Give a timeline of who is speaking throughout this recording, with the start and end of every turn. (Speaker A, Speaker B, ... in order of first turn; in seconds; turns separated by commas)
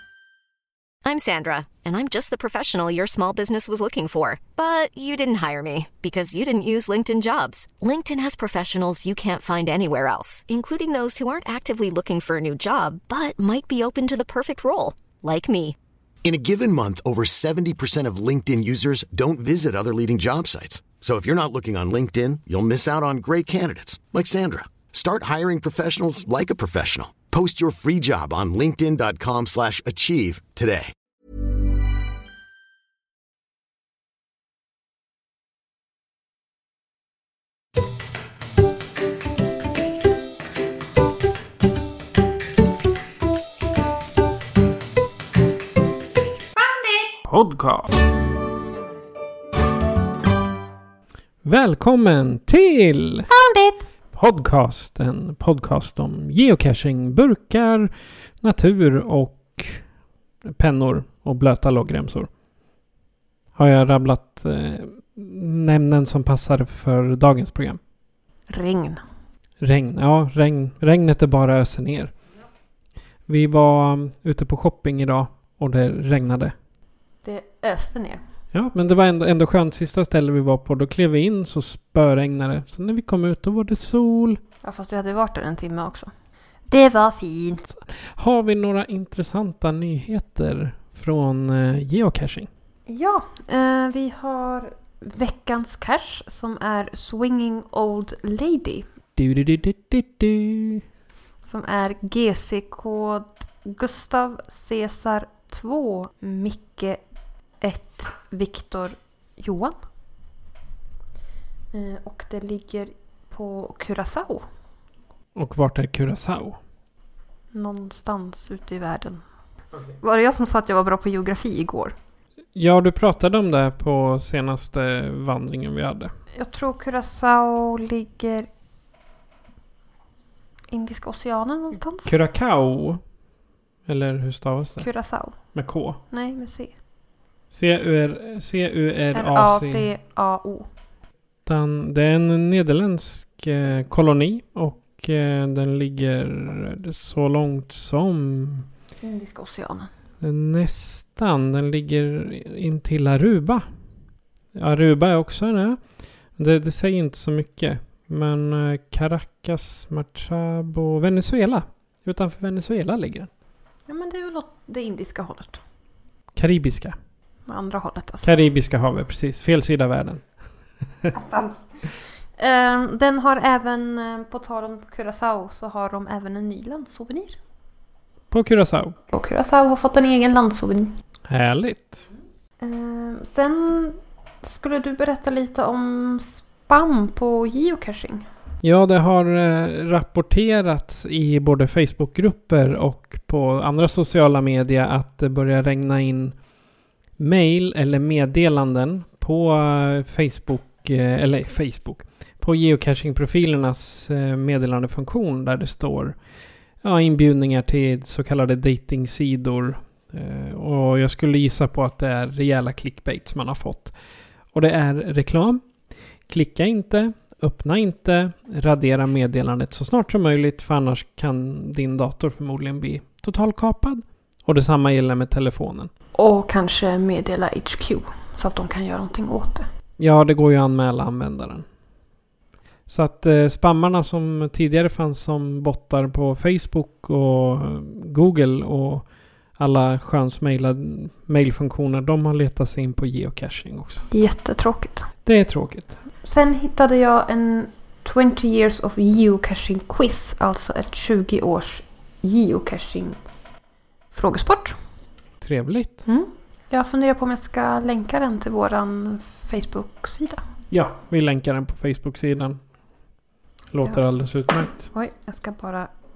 Speaker A: 1.0-15.8, Speaker B: 16.2-30.9, Speaker C: 47.3-47.9, Speaker C: 51.4-53.3, Speaker D: 53.3-53.9, Speaker C: 54.1-59.9, Speaker C: 60.4-62.3, Speaker C: 63.5-67.8, Speaker D: 68.5-69.0, Speaker C: 69.6-72.1, Speaker C: 73.3-76.5, Speaker D: 77.2-78.2, Speaker C: 78.5-84.4, Speaker D: 84.6-86.1, Speaker D: 86.7-87.7, Speaker C: 88.0-92.5, Speaker D: 92.9-98.9, Speaker C: 99.2-100.8, Speaker D: 101.4-107.0, Speaker D: 107.6-109.8, Speaker D: 111.7-114.5, Speaker C: 115.3-116.6, Speaker D: 117.5-119.2, Speaker D: 120.0-122.0, Speaker C: 122.5-126.1, Speaker D: 126.3-128.5, Speaker D: 130.7-132.1, Speaker C: 132.1-133.1, Speaker C: 133.9-136.0, Speaker D: 134.8-135.6, Speaker D: 136.1-136.7, Speaker C: 137.5-139.9, Speaker D: 139.1-140.7, Speaker C: 141.5-148.7, Speaker D: 149.0-149.9, Speaker C: 150.2-153.7, Speaker C: 154.5-163.3, Speaker D: 163.9-165.6, Speaker C: 166.3-167.0, Speaker D: 167.5-168.3, Speaker C: 168.2-170.3, Speaker D: 171.1-177.4, Speaker C: 178.3-179.0, Speaker D: 179.1-181.0, Speaker C: 181.3-182.1, Speaker D: 182.6-188.3, Speaker C: 188.6-196.4, Speaker C: 197.2-206.2, Speaker C: 206.8-214.0, Speaker C: 214.5-215.7, Speaker C: 216.2-225.9, Speaker D: 226.2-229.7, Speaker C: 230.0-231.7, Speaker C: 232.9-244.1, Speaker D: 244.1-245.1, Speaker C: 245.2-246.0, Speaker D: 246.2-253.2, Speaker D: 254.1-254.8, Speaker C: 255.4-256.0, Speaker D: 256.1-260.4, Speaker C: 260.7-262.6, Speaker C: 263.7-264.9, Speaker D: 264.8-265.9